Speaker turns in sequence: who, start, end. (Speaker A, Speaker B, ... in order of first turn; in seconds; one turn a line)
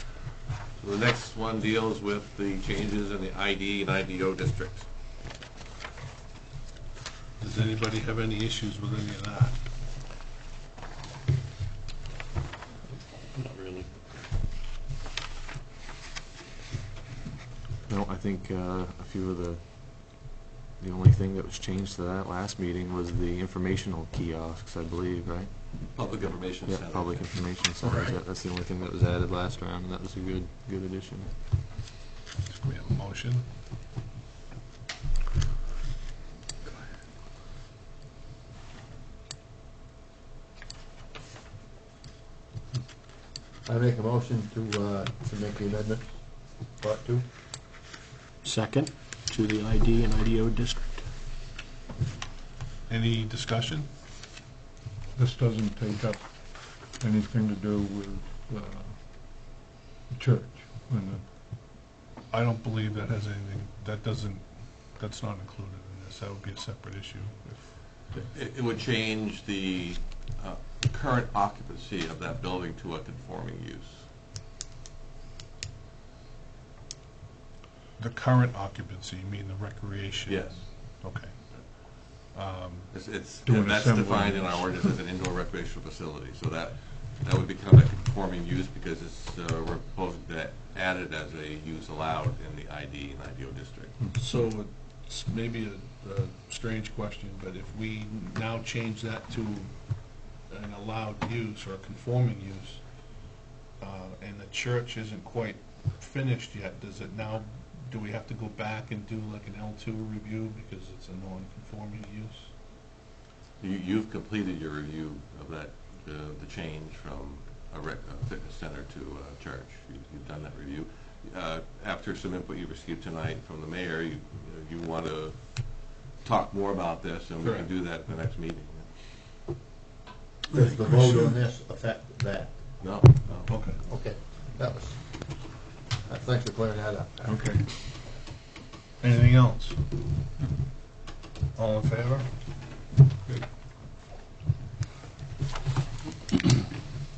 Speaker A: 0.8-4.9
Speaker B: 7.4-9.6
Speaker C: 17.9-25.5
Speaker A: 25.9-27.4
Speaker C: 26.6-31.3
Speaker B: 32.5-33.5
Speaker D: 43.6-47.3
Speaker E: 48.4-51.0
Speaker B: 52.9-53.9
Speaker F: 55.1-56.2
Speaker F: 56.9-59.0
Speaker F: 60.1-61.2
Speaker B: 62.3-67.7
Speaker A: 68.1-74.1
Speaker B: 78.0-81.4
Speaker A: 80.3-80.9
Speaker B: 81.9-82.9
Speaker A: 82.9-94.0
Speaker F: 83.4-84.8
Speaker B: 94.1-99.7
Speaker B: 100.4-102.8
Speaker B: 103.8-112.5
Speaker A: 113.6-128.9
Speaker B: 127.4-127.7
Speaker D: 130.5-132.8
Speaker B: 130.5-131.3
Speaker A: 132.8-133.5
Speaker B: 133.5-133.8
Speaker D: 133.8-137.4
Speaker B: 137.2-137.7
Speaker B: 139.0-139.8
Speaker B: 141.5-142.3